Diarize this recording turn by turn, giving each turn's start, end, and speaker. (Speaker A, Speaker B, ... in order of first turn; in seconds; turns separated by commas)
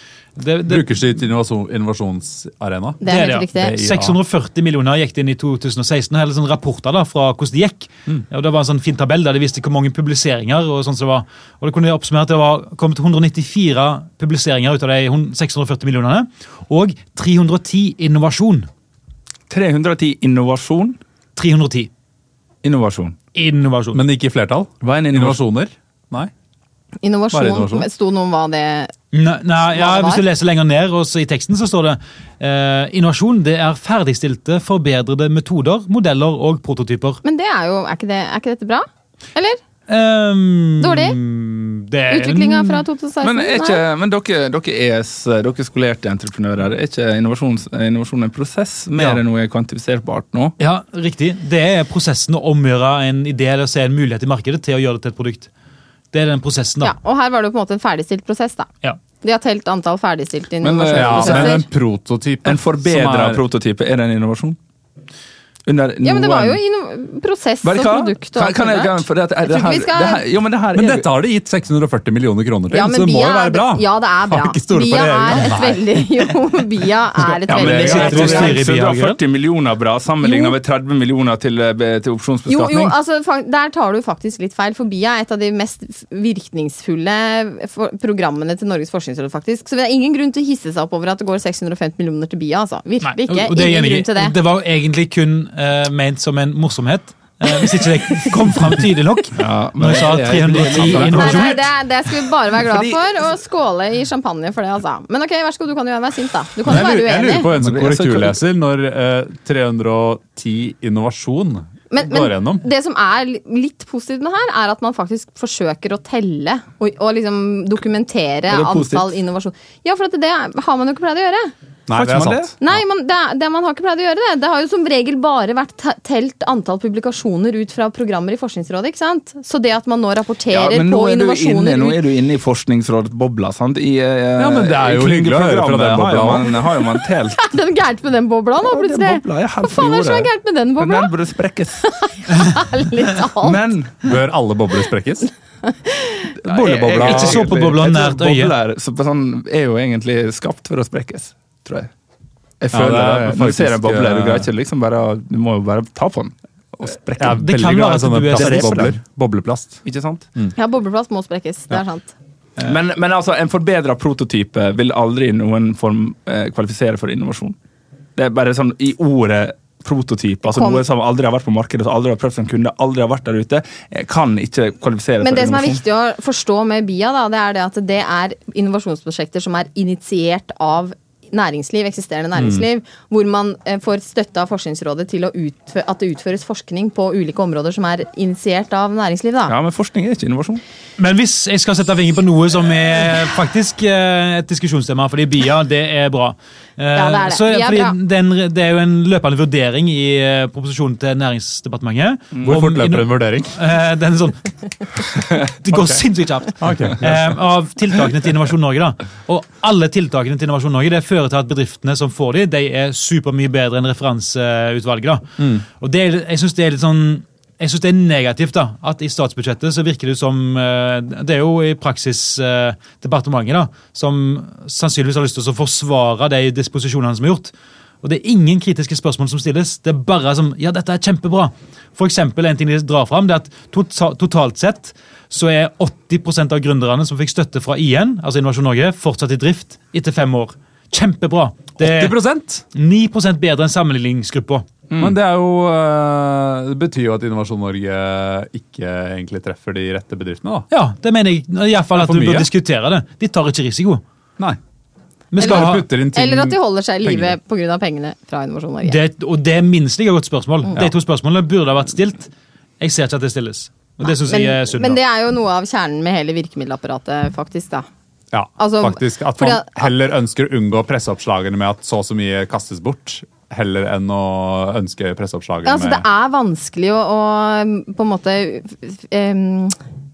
Speaker A: 0.4-0.9, Speaker B: 0.7-3.0, Speaker C: 3.0-3.8, Speaker A: 3.0-18.7, Speaker D: 3.6-4.1, Speaker B: 3.8-4.1, Speaker D: 19.5-21.0, Speaker A: 21.4-21.9, Speaker D: 22.6-23.1, Speaker A: 23.3-24.0, Speaker B: 23.9-26.3, Speaker D: 24.8-25.4, Speaker C: 27.0-28.9, Speaker B: 27.3-27.9, Speaker A: 29.1-37.2, Speaker C: 29.7-30.2, Speaker C: 37.2-39.6, Speaker A: 39.9-42.8, Speaker C: 40.8-41.2, Speaker C: 42.1-43.8, Speaker D: 43.2-50.5, Speaker A: 49.0-49.2, Speaker A: 50.6-55.5, Speaker A: 56.1-56.9, Speaker C: 56.8-58.7, Speaker C: 59.2-61.7, Speaker D: 60.6-61.6, Speaker B: 60.9-63.4, Speaker D: 62.4-64.6, Speaker D: 65.7-66.6, Speaker C: 66.0-70.2, Speaker D: 67.6-71.1, Speaker B: 70.7-76.0, Speaker C: 72.7-78.5, Speaker B: 77.3-78.5, Speaker D: 77.5-83.0, Speaker A: 77.7-79.2, Speaker C: 80.2-80.5, Speaker C: 82.5-94.3, Speaker A: 93.0-101.7, Speaker D: 99.3-101.6, Speaker C: 100.9-107.5, Speaker D: 102.5-103.0, Speaker B: 106.6-112.6, Speaker D: 107.5-108.4, Speaker C: 111.9-121.5, Speaker D: 118.5-119.1, Speaker B: 121.9-122.8, Speaker D: 121.9-122.5, Speaker C: 122.6-132.0, Speaker D: 130.5-137.4, Speaker B: 134.3-136.6, Speaker C: 137.4-141.1, Speaker D: 138.6-141.8, Speaker C: 141.8-143.6, Speaker D: 143.4-144.0, Speaker B: 144.0-145.3, Speaker C: 145.7-146.3, Speaker B: 146.4-147.5, Speaker D: 146.4-151.9, Speaker A: 147.0-148.6, Speaker D: 152.6-157.4, Speaker B: 152.7-154.5, Speaker B: 157.1-159.8, Speaker A: 157.3-158.9, Speaker D: 158.3-158.9, Speaker D: 159.8-160.3, Speaker C: 160.6-162.1, Speaker D: 162.6-167.6, Speaker D: 168.2-175.8, Speaker C: 170.5-170.8, Speaker C: 175.2-189.5, Speaker D: 189.5-190.6, Speaker A: 191.0-242.2, Speaker C: 196.9-197.9, Speaker D: 202.3-202.6, Speaker B: 202.4-203.5, Speaker B: 205.7-206.0, Speaker B: 206.6-207.3, Speaker B: 215.4-215.6, Speaker B: 241.8-242.6, Speaker A: 242.7-244.6, Speaker D: 244.9-245.1, Speaker B: 245.0-250.7, Speaker A: 250.7-254.0, Speaker B: 251.9-252.5, Speaker A: 255.3-255.8, Speaker B: 255.3-257.4, Speaker C: 255.4-259.0, Speaker A: 258.8-265.0, Speaker C: 264.0-267.9, Speaker B: 268.3-276.1, Speaker C: 268.6-269.8, Speaker C: 275.6-279.8